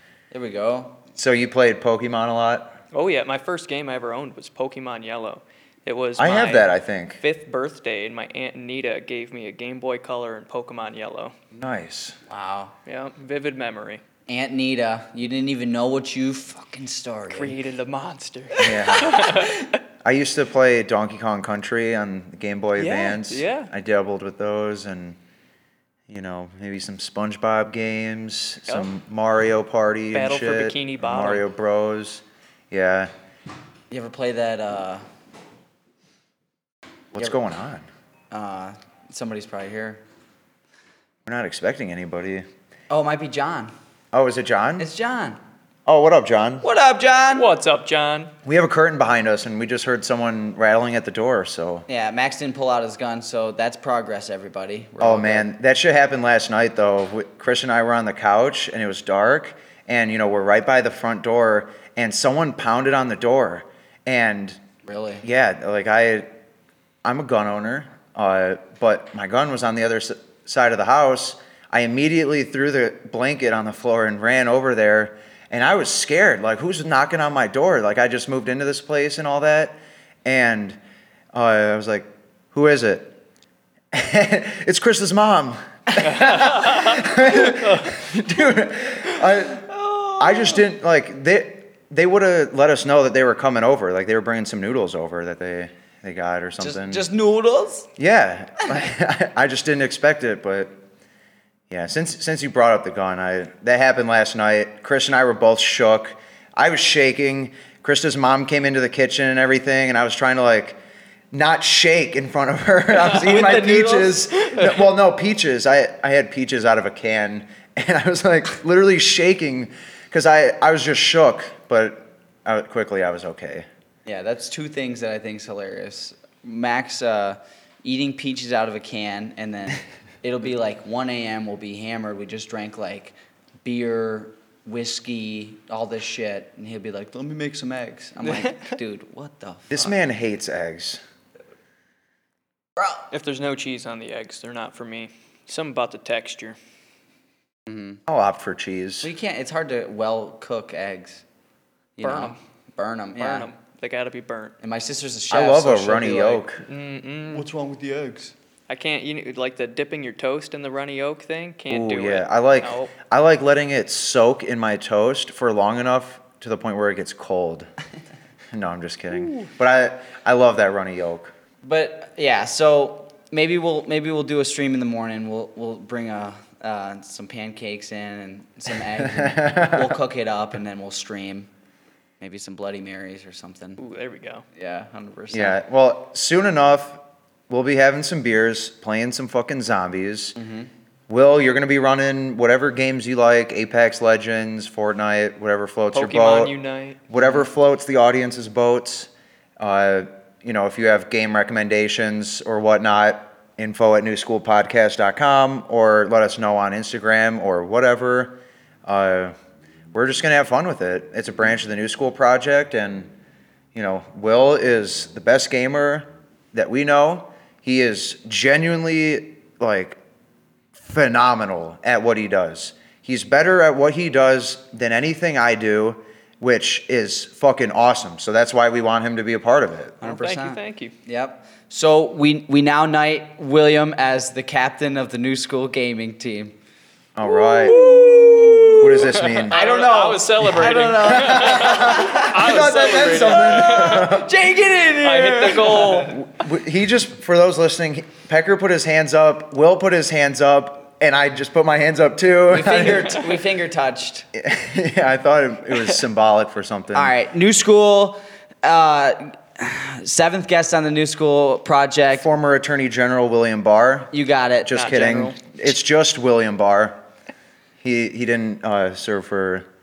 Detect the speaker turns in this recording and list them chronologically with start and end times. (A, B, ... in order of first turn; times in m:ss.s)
0:00.3-0:01.0 A
0:01.2-0:02.8 B
0:02.9-0:11.4 C
0:06.2-0:07.2 B
0:11.5-0:12.2 B
0:12.3-0:12.7 A
0:12.9-0:14.0 C
0:14.3-0:17.6 A
0:17.3-0:19.8 C
0:18.6-0:19.4 B
0:20.0-0:25.2 B
0:22.8-0:23.7 C
0:26.1-0:33.1 B
0:30.1-0:31.4 C
0:33.9-0:35.0 A
0:37.1-0:37.9 B
0:38.3-0:40.0 A
0:41.3-0:42.5 B
0:42.9-0:43.7 A
0:44.1-0:44.9 B
0:44.8-0:45.4 A
0:45.9-0:46.6 B
0:46.6-0:47.5 A
0:47.4-0:48.3 C
0:48.4-0:51.9 B
0:51.9-0:55.5 A
0:55.0-1:04.6 B
1:04.8-1:05.2 A
1:05.2-1:06.3 B
1:07.0-1:20.8 B
1:21.3-1:23.1 B
1:23.9-1:29.7 B
1:26.0-1:28.0 C
1:29.7-1:30.7 A
1:30.2-1:37.0 B
1:36.6-1:37.9 A
1:38.0-1:40.8 B
1:41.7-1:50.8 B
1:51.3-2:03.7 B
1:53.0-1:53.6 C
1:53.1-1:54.3 A
1:54.4-1:54.8 C
2:04.0-2:20.0 A
2:18.2-2:18.5 C
2:19.7-2:21.0 B
2:22.8-2:23.1 A
2:23.1-2:26.6 C
2:27.7-2:28.0 A
2:28.1-2:29.1 B
2:29.0-2:31.2 A
2:32.0-2:33.5 A
2:32.0-2:32.4 C
2:33.2-2:34.6 C
2:34.6-2:36.4 A
2:35.3-2:36.6 B
2:36.7-2:37.5 C
2:37.4-2:38.3 A
2:38.7-2:42.9 C
2:41.7-2:47.7 B
2:48.5-2:51.3 B
2:49.2-2:49.5 C
2:51.6-3:01.5 A
2:59.0-3:00.0 B
3:02.2-3:03.8 A
3:03.8-3:04.4 C
3:04.5-3:05.6 A
3:05.3-3:10.4 B
3:10.4-3:10.7 A
3:11.1-3:16.5 B
3:15.9-3:17.0 C
3:17.1-3:29.4 B
3:29.9-3:33.1 B
3:33.8-3:40.0 B
3:40.8-3:50.0 B
3:50.0-3:56.6 A
3:50.0-3:50.9 C
3:57.2-3:57.8 B
3:57.2-4:06.1 A
3:57.6-4:04.2 C
3:58.8-3:59.6 B
4:01.0-4:04.3 B
4:05.0-4:06.2 C
4:06.1-4:13.2 B
4:12.5-4:14.3 A
4:14.3-4:17.1 B
4:16.9-4:22.3 A
4:22.1-4:24.1 B
4:24.1-4:25.2 A
4:24.7-4:27.0 B
4:24.8-4:25.4 C
4:27.8-4:29.7 B